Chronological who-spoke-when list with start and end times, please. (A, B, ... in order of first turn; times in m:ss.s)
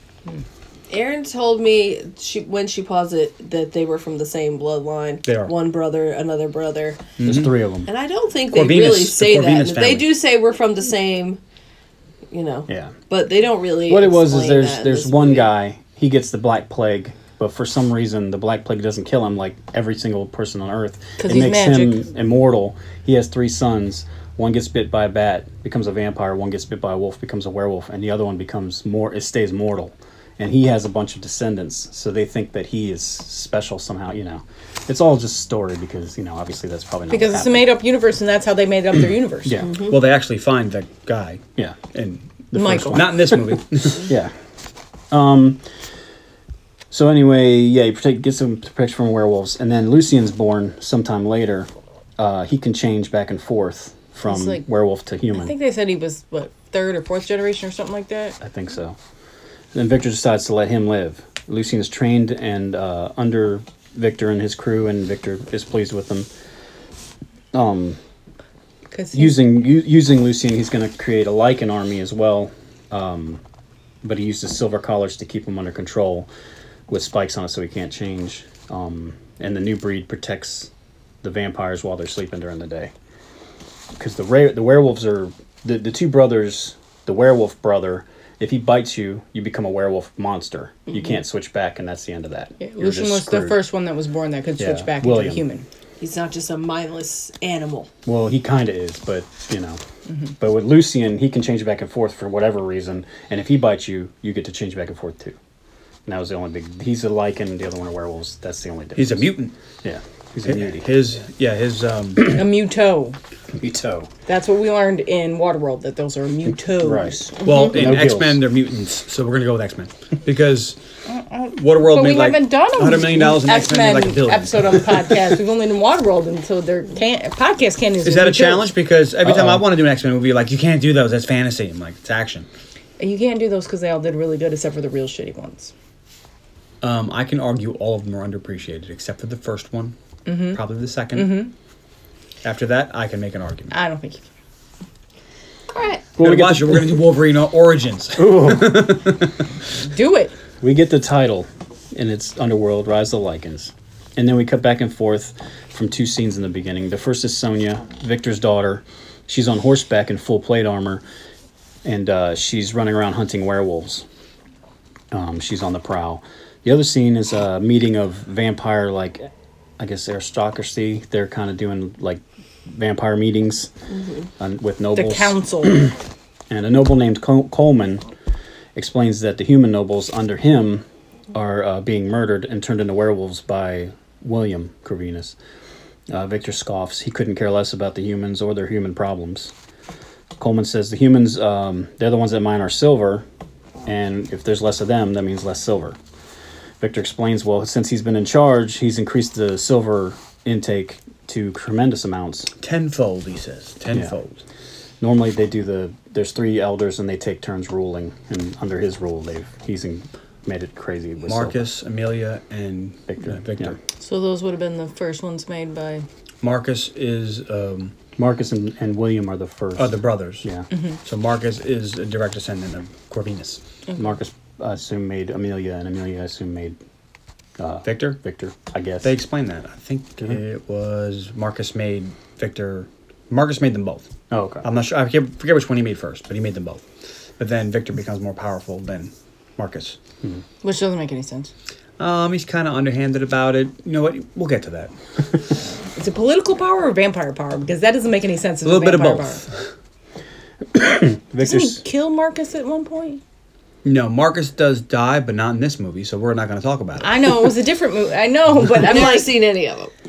0:00.9-0:07.1 A
0:05.2-0:05.5 B
0:07.2-0:07.5 B
0:07.2-0:07.9 C
0:07.8-0:11.4 A
0:08.5-0:10.2 B
0:12.3-0:15.5 A
0:12.7-0:12.9 C
0:13.9-0:37.8 C
0:21.2-0:22.0 D
0:37.1-0:39.6 D
0:39.4-0:39.8 C
0:39.9-0:44.1 B
0:42.5-0:44.3 C
0:42.5-0:43.1 D
0:45.1-0:45.6 C
0:46.9-0:55.5 C
0:54.2-0:54.6 D
0:55.3-0:58.4 D
0:58.4-0:59.0 C
0:59.7-1:06.3 C
1:07.5-1:08.0 C
1:08.9-1:09.4 D
1:09.1-1:13.4 C
1:14.0-1:16.3 C
1:16.9-1:20.7 C
1:21.2-1:22.9 C
1:24.0-1:33.6 C
1:32.6-1:35.6 D
1:34.6-1:35.4 C
1:36.0-1:37.9 A
1:38.0-1:39.8 C
1:40.4-1:45.4 C
1:46.0-1:50.9 C
1:49.0-1:49.5 B
1:50.4-1:52.4 B
1:52.3-1:53.2 D
1:53.5-1:54.1 C
1:54.3-1:57.3 D
1:56.7-1:58.4 C
1:57.4-2:00.8 B
2:01.1-2:08.7 D
2:01.5-2:05.2 B
2:08.0-2:12.5 B
2:09.2-2:09.6 C
2:13.0-2:15.7 D
2:16.8-2:20.0 B
2:20.2-2:20.6 D
2:20.5-2:21.4 B
2:21.1-2:21.5 D
2:22.4-2:23.7 B
2:23.7-2:24.2 D
2:25.7-2:26.1 A
2:26.2-2:27.0 C
2:26.2-2:29.3 B
2:28.2-2:29.0 C
2:29.9-2:30.3 D
2:30.6-2:41.0 C
2:41.8-2:44.0 C
2:45.1-2:53.7 C
2:53.9-2:54.3 A
2:54.4-2:55.9 C
2:54.9-2:55.9 D
2:56.5-2:58.0 C
2:58.7-3:05.4 C
3:06.1-3:09.5 C
3:10.4-3:13.2 C
3:13.8-3:16.0 C
3:16.8-3:22.5 C
3:22.6-3:24.4 B
3:25.0-3:31.6 C
3:31.2-3:33.8 B
3:33.1-3:33.8 C
3:34.0-3:36.0 D
3:36.4-3:37.9 B
3:38.2-3:40.7 C
3:39.8-3:40.5 B
3:41.0-3:43.6 B
3:43.9-3:46.8 C
3:47.6-3:49.1 C
3:47.8-3:48.2 B
3:49.0-3:54.1 B
3:54.3-3:54.6 C
3:54.6-3:56.8 B
3:57.4-4:00.0 B
4:00.6-4:01.5 D
4:02.0-4:04.9 B
4:06.0-4:09.4 D
4:08.6-4:09.5 B
4:10.7-4:11.8 C
4:11.4-4:13.2 D
4:13.8-4:17.3 B
4:17.0-4:19.3 D
4:18.7-4:19.9 A